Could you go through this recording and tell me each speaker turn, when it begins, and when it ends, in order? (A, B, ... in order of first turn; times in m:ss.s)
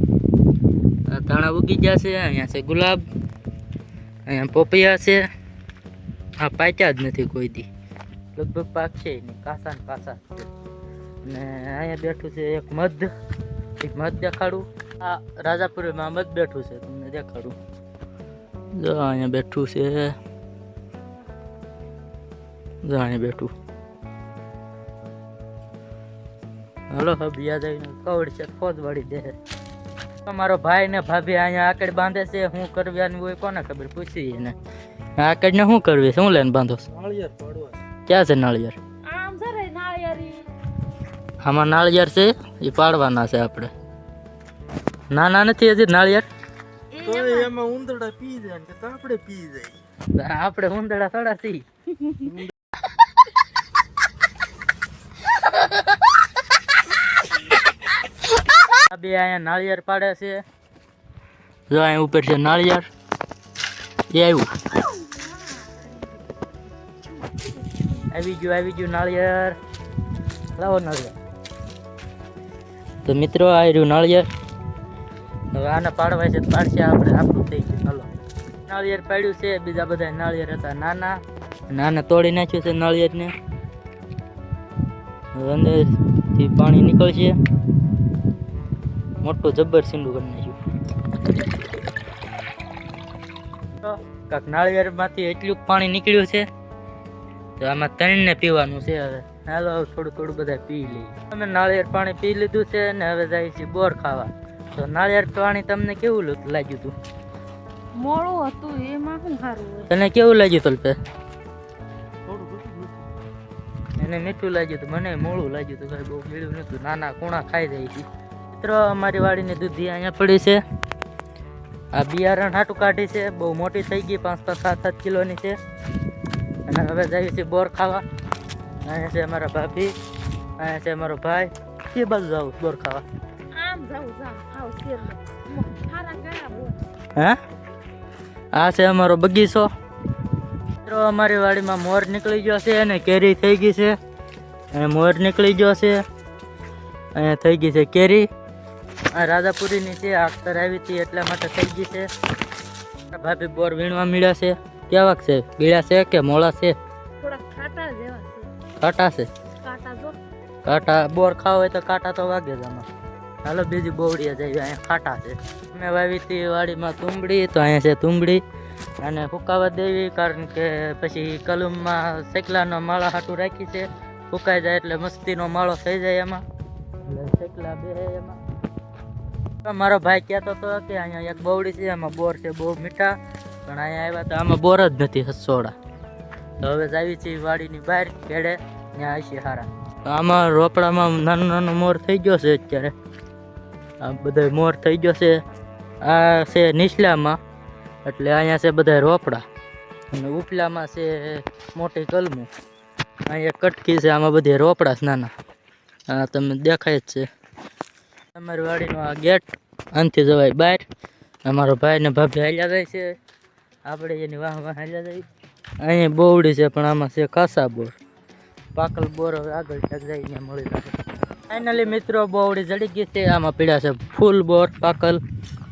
0:01.1-0:03.0 A
0:04.3-0:05.2 A
0:06.4-0:07.7 A
0:08.3-0:10.5 A
0:11.2-0:13.1 A
0:13.8-0:17.6 A
0:18.7-0:20.2 A
0:22.8-0:23.5 A
0:26.9-0:29.3 A
0:30.2-0:34.6 A
0:35.2-0:37.0 A
0:37.0-0:37.7 B
0:38.1-0:38.8 A
0:39.0-0:40.5 C
0:41.4-0:43.7 A
0:45.1-0:46.2 A
0:46.9-0:47.5 C
0:47.4-0:49.7 B
0:50.1-0:51.6 A
0:58.7-1:00.4 A
1:01.7-1:02.9 A
1:04.1-1:04.7 A
1:05.0-1:06.2 C
1:07.0-1:08.0 C
1:08.1-1:09.6 A
1:10.6-1:11.1 A
1:13.0-1:14.3 A
1:15.5-1:18.1 A
1:18.7-1:21.2 A
1:21.7-1:23.3 A
1:25.3-1:27.4 A
1:29.2-1:30.6 A
1:33.8-1:36.5 A
1:37.6-1:46.9 A
1:48.0-1:49.9 C
1:49.9-1:51.0 A
1:54.0-2:00.6 A
2:01.9-2:05.5 A
2:06.7-2:08.0 A
2:08.8-2:09.9 A
2:10.6-2:13.0 A
2:13.5-2:16.8 C
2:18.5-2:19.7 A
2:20.8-2:23.9 A
2:24.7-2:26.0 A
2:27.1-2:28.3 A
2:29.1-2:32.1 A
2:33.1-2:36.7 A
2:37.2-2:38.5 C
2:38.8-2:39.3 A
2:39.6-2:40.2 C
2:40.6-2:42.9 A
2:43.4-2:48.4 A
2:49.0-2:56.4 A
2:57.0-2:58.4 A
2:59.6-3:03.1 A
3:03.6-3:05.7 A
3:06.6-3:12.9 A
3:14.0-3:15.4 A
3:16.0-3:17.4 A
3:18.0-3:19.4 A
3:20.1-3:22.5 A
3:23.3-3:25.3 A
3:26.1-3:27.3 A
3:28.3-3:30.8 A
3:31.4-3:33.1 A
3:33.8-3:35.2 A
3:35.8-3:37.9 A
3:38.7-3:40.9 A
3:41.5-3:45.2 A